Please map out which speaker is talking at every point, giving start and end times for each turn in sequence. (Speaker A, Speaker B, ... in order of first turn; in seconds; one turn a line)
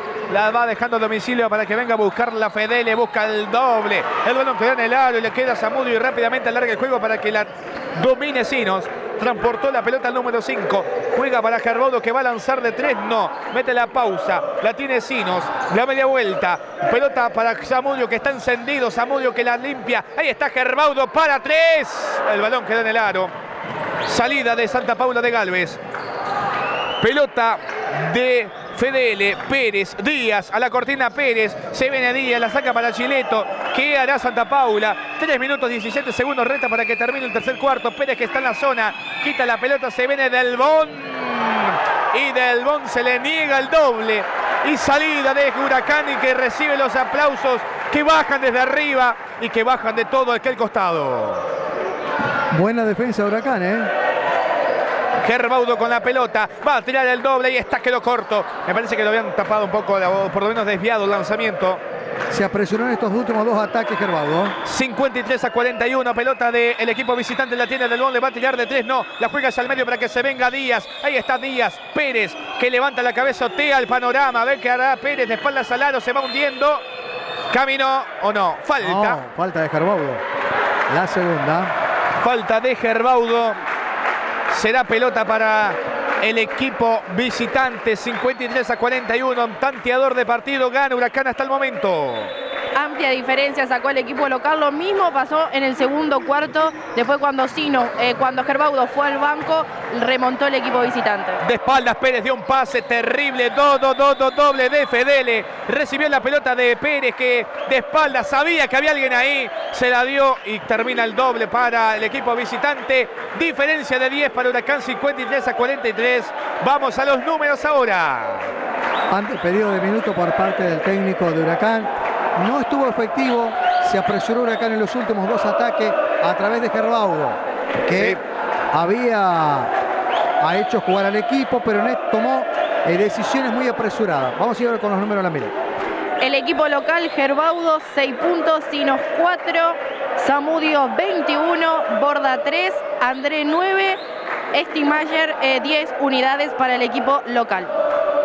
Speaker A: 0.3-23.3
Speaker A: 24.0-25.8
Speaker A: 27.0-51.4
Speaker B: 52.5-53.9
Speaker A: 55.2-61.8
Speaker B: 62.3-64.6
Speaker A: 64.6-76.8
Speaker A: 77.5-79.2
Speaker B: 78.8-80.2
Speaker B: 80.9-81.7
Speaker A: 82.2-83.6
Speaker A: 84.5-92.3
Speaker C: 92.7-101.4
Speaker A: 101.4-118.5
Speaker B: 119.1-128.2
Speaker A: 127.9-128.2
Speaker B: 128.7-129.7
Speaker B: 130.4-135.5
Speaker C: 136.2-144.0
Speaker C: 144.5-147.7